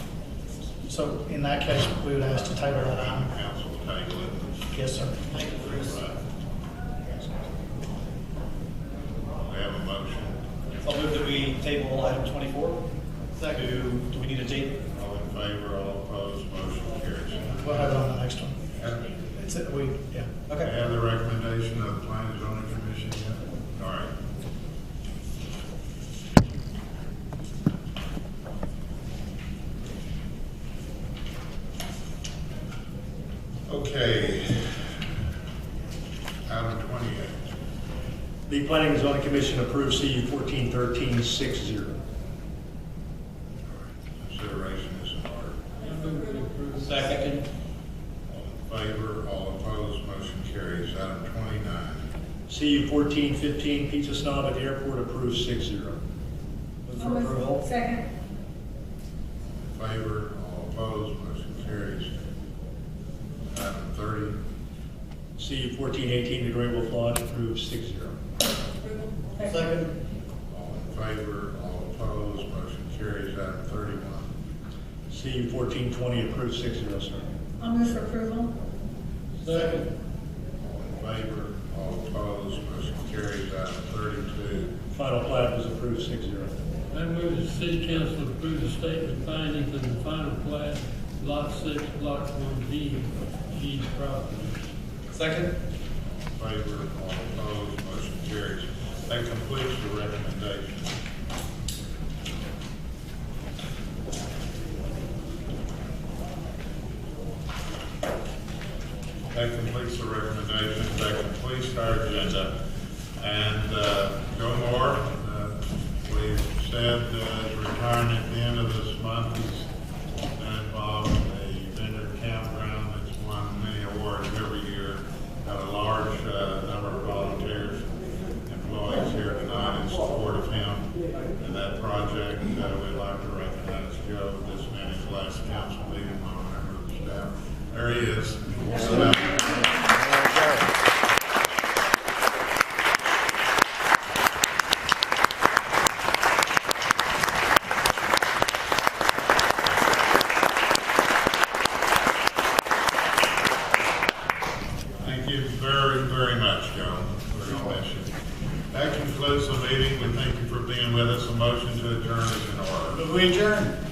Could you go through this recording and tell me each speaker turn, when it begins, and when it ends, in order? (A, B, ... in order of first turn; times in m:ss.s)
0:00.8-0:03.3 A
0:02.3-0:04.6 B
0:04.7-0:05.2 A
0:05.3-0:05.9 C
0:05.4-0:06.2 B
0:09.4-0:10.4 B
0:10.8-0:12.8 C
0:13.3-0:14.8 C
0:14.9-0:17.9 B
0:17.5-0:18.6 A
0:18.8-0:19.1 B
0:19.3-0:20.3 A
0:20.6-0:24.1 B
0:33.7-0:34.9 B
0:36.5-0:37.4 B
0:38.5-0:42.0 D
0:43.7-0:45.6 B
0:45.8-0:47.1 E
0:46.8-0:47.4 C
0:48.3-0:52.0 B
0:52.5-0:56.0 D
0:56.8-0:57.6 C
0:57.0-0:58.0 F
0:59.6-1:02.1 B
1:03.5-1:04.4 B
1:05.4-1:08.2 D
1:08.8-1:09.7 F
1:09.4-1:10.0 C
1:10.5-1:14.3 B
1:15.1-1:17.2 D
1:17.6-1:18.5 F
1:19.4-1:19.9 E
1:19.5-1:19.8 C
1:20.6-1:24.7 B
1:24.9-1:26.5 D
1:26.9-1:34.6 E
1:35.1-1:35.5 C
1:36.3-1:41.0 B
1:49.3-1:52.5 B
1:53.2-1:59.7 B
2:00.4-2:19.7 B
2:35.0-2:38.1 B
2:38.7-2:43.1 B
2:43.0-2:43.7 C